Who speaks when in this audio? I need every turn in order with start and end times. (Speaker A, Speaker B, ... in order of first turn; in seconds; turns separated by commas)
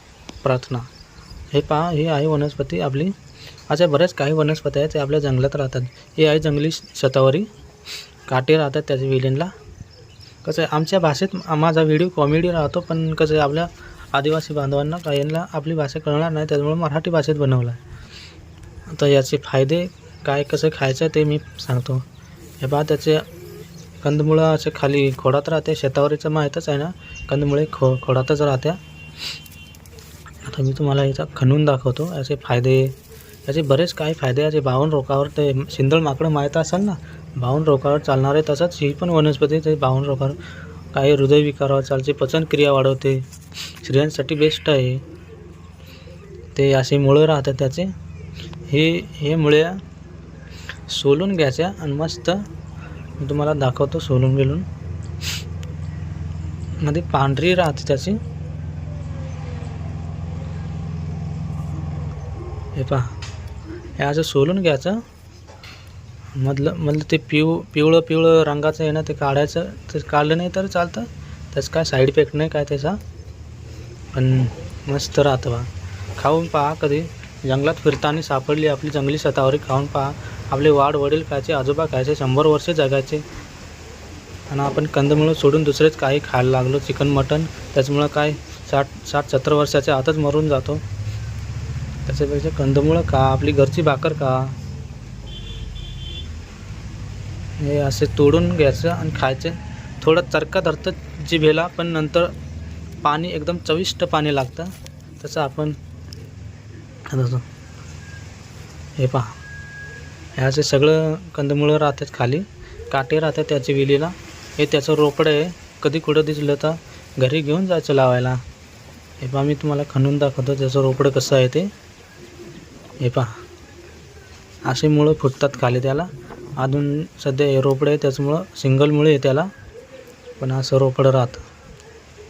Speaker A: 0.4-0.9, Speaker A: 1.5-3.1, Speaker A: 3.7-7.5, Speaker A: 8.3-9.5, Speaker A: 10.4-17.8, Speaker A: 18.9-22.0, Speaker A: 22.6-23.2, Speaker A: 24.0-28.8, Speaker A: 30.4-40.4, Speaker A: 40.9-43.2, Speaker A: 43.8-45.0, Speaker A: 46.5-47.9, Speaker A: 48.7-49.8, Speaker A: 50.9-52.4, Speaker A: 53.2-54.6, Speaker A: 56.8-58.2, Speaker A: 62.8-63.1, Speaker A: 64.0-65.0, Speaker A: 66.3-73.0, Speaker A: 74.1-83.2, Speaker A: 84.5-90.8, Speaker A: 92.0-94.5, Speaker A: 97.6-102.3, Speaker A: 103.0-105.8, Speaker A: 107.1-107.4, Speaker A: 109.0-109.3, Speaker A: 110.3-118.4, Speaker A: 119.2-121.7, Speaker A: 123.0-123.3, Speaker A: 124.6-129.5, Speaker A: 130.4-131.4